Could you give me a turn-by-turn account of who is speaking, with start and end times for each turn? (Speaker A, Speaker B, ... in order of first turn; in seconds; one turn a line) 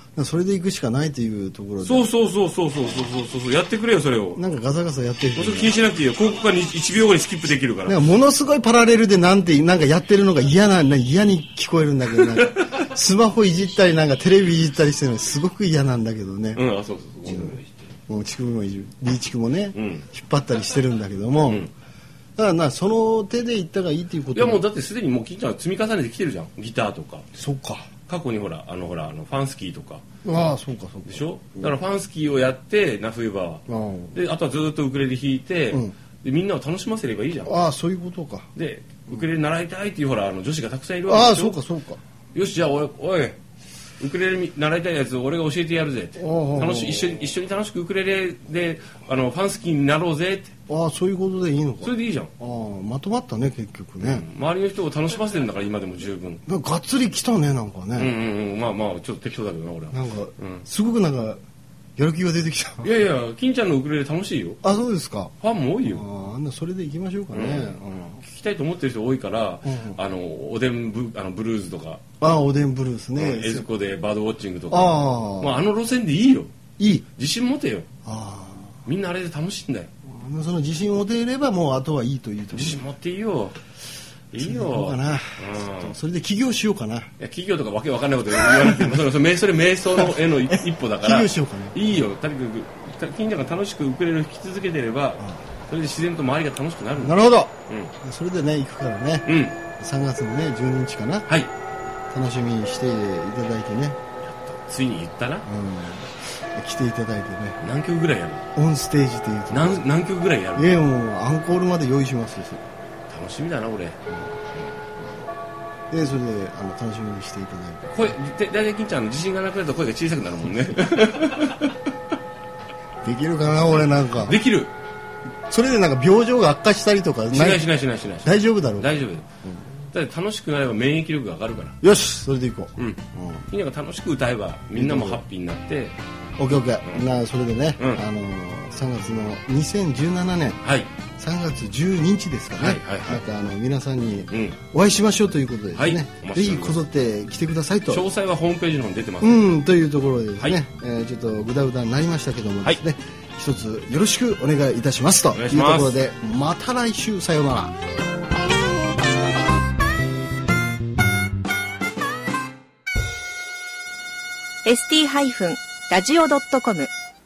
Speaker A: 0.2-2.1
Speaker B: 1.8-4.4
Speaker A: 4.4-5.8
Speaker B: 5.3-8.0
Speaker A: 7.8-16.6
Speaker B: 16.6-17.8
Speaker A: 17.3-21.7
Speaker B: 19.7-20.1
Speaker A: 22.4-24.6
Speaker B: 24.3-27.3
Speaker A: 27.4-27.9
Speaker B: 28.1-30.1
Speaker A: 30.2-31.8
Speaker B: 31.1-37.5
Speaker A: 33.7-34.2
Speaker A: 37.5-38.5
Speaker B: 38.5-41.6
Speaker A: 41.1-42.0
Speaker B: 42.3-43.4
Speaker B: 44.0-50.5
Speaker A: 46.2-47.2
Speaker A: 50.7-54.3
Speaker B: 51.8-52.3
Speaker B: 54.0-56.4
Speaker A: 56.5-58.1
Speaker B: 58.0-60.6
Speaker A: 59.9-61.4
Speaker A: 62.0-62.9
Speaker B: 62.8-64.7
Speaker A: 64.6-65.3
Speaker B: 65.4-66.1
Speaker A: 65.8-68.2
Speaker B: 67.3-72.0
Speaker A: 69.7-70.0
Speaker A: 72.2-73.7
Speaker B: 73.2-76.5
Speaker A: 74.7-75.7
Speaker A: 76.8-77.1
Speaker B: 77.2-77.9
Speaker A: 78.0-78.8
Speaker B: 78.8-79.9
Speaker A: 80.1-82.8
Speaker B: 82.5-83.6
Speaker B: 84.3-86.0
Speaker A: 84.4-87.1
Speaker B: 87.2-97.9
Speaker A: 88.5-89.0
Speaker A: 90.0-91.8
Speaker A: 97.0-101.3
Speaker B: 99.2-99.6
Speaker A: 102.1-104.0
Speaker B: 104.2-105.5
Speaker A: 105.5-107.6
Speaker B: 107.6-108.5
Speaker A: 108.5-109.9
Speaker B: 109.5-110.8
Speaker A: 110.5-112.6
Speaker B: 113.1-114.0
Speaker A: 115.9-118.2
Speaker B: 117.9-121.8
Speaker A: 123.0-124.4
Speaker B: 124.2-124.7
Speaker A: 125.5-127.7
Speaker B: 127.3-129.3
Speaker A: 128.2-129.0
Speaker B: 129.9-131.8
Speaker A: 131.8-133.5
Speaker B: 132.8-136.0
Speaker A: 134.7-135.2
Speaker A: 136.4-140.6
Speaker B: 137.8-138.0
Speaker B: 140.6-140.9
Speaker A: 141.2-148.1
Speaker B: 142.6-143.2
Speaker B: 144.3-144.6
Speaker B: 145.8-146.8
Speaker B: 147.9-149.5
Speaker A: 149.2-157.7
Speaker B: 155.3-156.0
Speaker C: 164.7-166.9